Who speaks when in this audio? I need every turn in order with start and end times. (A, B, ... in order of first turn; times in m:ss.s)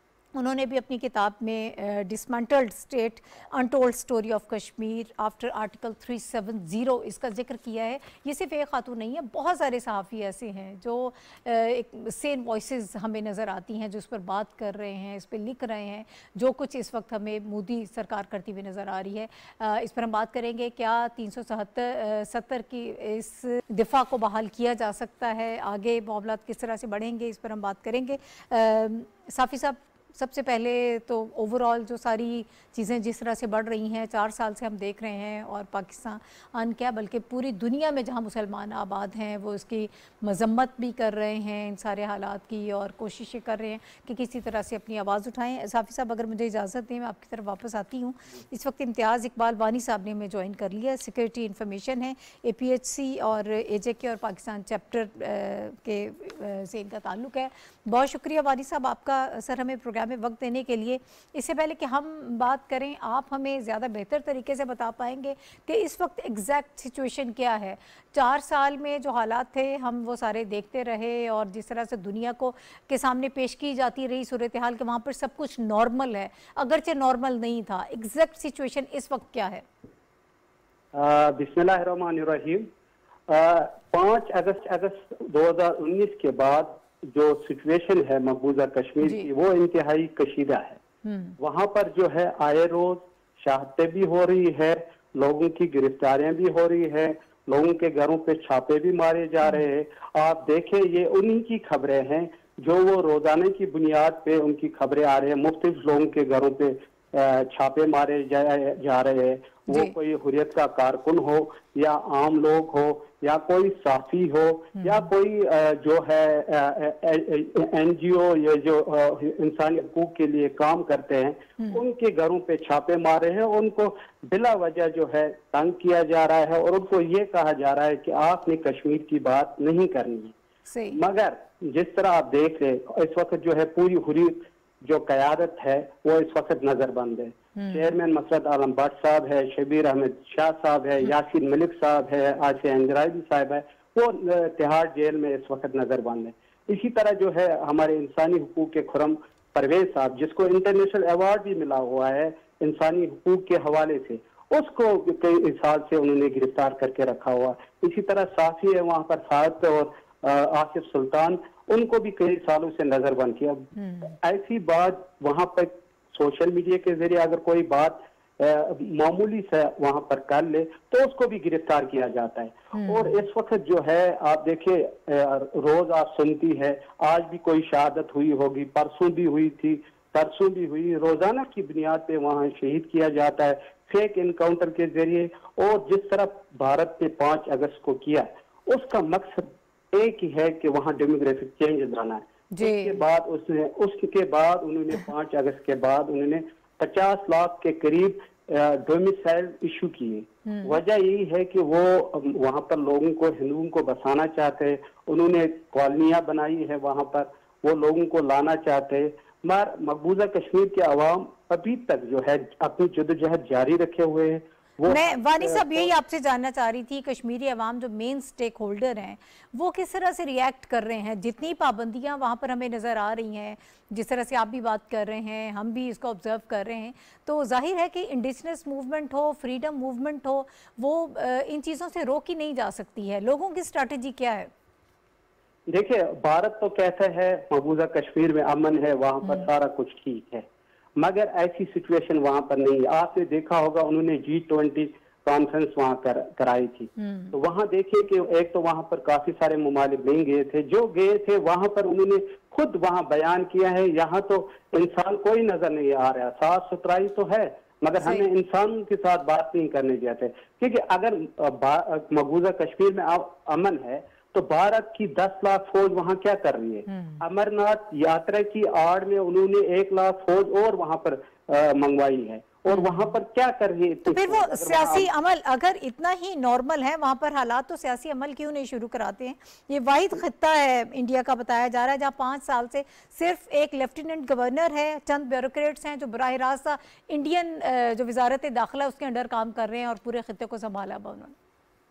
0:00.4-1:19.6 A
1:21.0-1:22.7 B
1:23.3-1:30.8 B
1:29.0-1:29.3 A
1:31.0-1:31.4 A
1:31.4-2:10.4 B
1:39.4-1:39.7 A
1:54.8-1:55.1 A
2:10.7-2:11.0 A
2:10.9-3:35.9 B
2:17.6-2:17.9 A
2:43.8-2:44.1 A
2:52.7-2:53.2 A
3:12.5-3:13.0 A
3:20.5-3:20.8 A
3:34.9-3:54.5 A
3:55.7-4:00.5 B
3:59.2-3:59.5 A
4:01.0-4:35.1 B
4:07.0-4:07.4 A
4:18.0-4:18.3 A
4:26.9-4:27.2 A
4:32.7-4:33.1 A
4:34.1-4:51.3 A